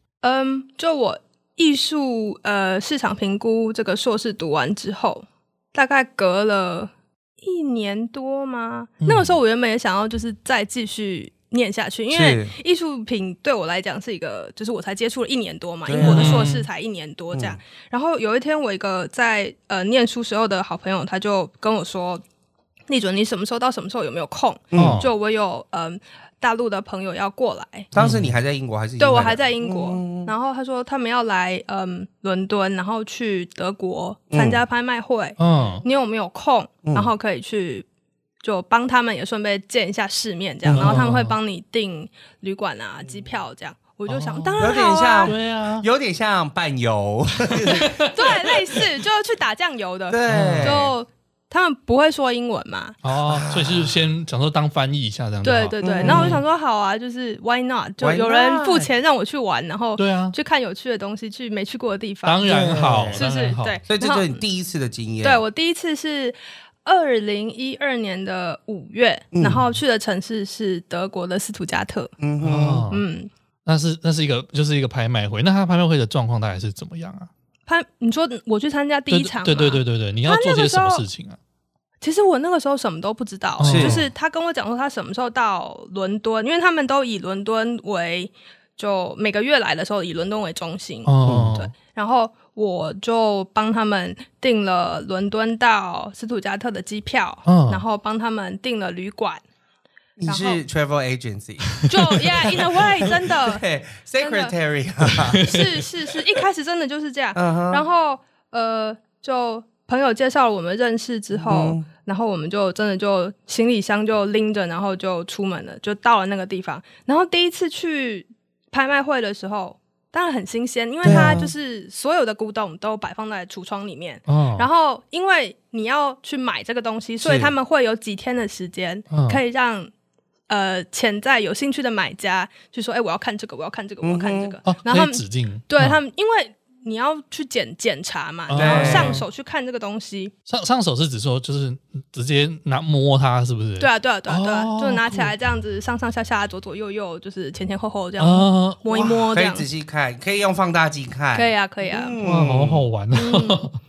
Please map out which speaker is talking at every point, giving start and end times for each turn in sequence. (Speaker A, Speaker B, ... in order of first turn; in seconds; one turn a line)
Speaker A: 0.2-22.2
Speaker B: 9.0-9.4
Speaker C: 12.1-12.5
Speaker C: 15.8-16.4
Speaker B: 16.0-16.7
Speaker C: 17.3-17.6
Speaker A: 22.9-27.9
Speaker C: 24.7-25.1
Speaker B: 24.7-25.1
Speaker C: 27.9-30.3
Speaker B: 27.9-28.4
Speaker A: 29.0-37.9
Speaker C: 34.3-34.6
Speaker B: 35.4-35.8
Speaker C: 36.8-37.1
Speaker A: 38.4-45.3
Speaker C: 40.6-41.0
Speaker B: 40.7-41.4
Speaker B: 44.1-44.7
Speaker C: 44.6-48.2
Speaker B: 45.2-45.8
Speaker B: 47.7-48.1
Speaker A: 48.1-53.0
Speaker C: 50.1-50.9
Speaker B: 50.3-50.8
Speaker B: 53.0-56.4
Speaker C: 53.3-54.0
Speaker A: 55.4-64.4
Speaker C: 55.8-56.4
Speaker C: 58.0-58.9
Speaker B: 60.0-60.3
Speaker B: 62.2-63.8
Speaker C: 62.4-63.2
Speaker C: 63.9-65.4
Speaker A: 65.2-72.1
Speaker C: 69.3-69.6
Speaker C: 72.2-72.9
Speaker B: 72.4-73.0
Speaker A: 72.9-73.3
Speaker B: 73.7-77.3
Speaker A: 77.7-81.0
Speaker B: 79.1-81.4
Speaker A: 82.0-99.4
Speaker B: 83.6-84.0
Speaker C: 83.6-84.1
Speaker B: 91.0-91.7
Speaker C: 91.2-91.5
Speaker B: 97.5-97.8
Speaker C: 100.2-105.5
Speaker A: 100.2-100.6
Speaker A: 101.9-103.6
Speaker A: 104.2-104.5
Speaker B: 105.2-105.6
Speaker A: 105.4-129.9
Speaker C: 107.3-107.8
Speaker C: 111.3-111.9
Speaker C: 121.0-121.5
Speaker B: 121.0-121.3
Speaker B: 124.3-124.7
Speaker C: 127.2-127.5
Speaker B: 129.1-129.4
Speaker A: 130.5-140.3
Speaker C: 134.0-134.6
Speaker B: 134.7-136.0
Speaker B: 138.5-139.2
Speaker C: 138.5-139.2
Speaker B: 140.5-145.3
Speaker A: 143.8-149.7
Speaker B: 148.2-148.8
Speaker C: 148.9-152.8
Speaker A: 151.3-152.2
Speaker B: 152.2-153.8
Speaker A: 153.1-153.6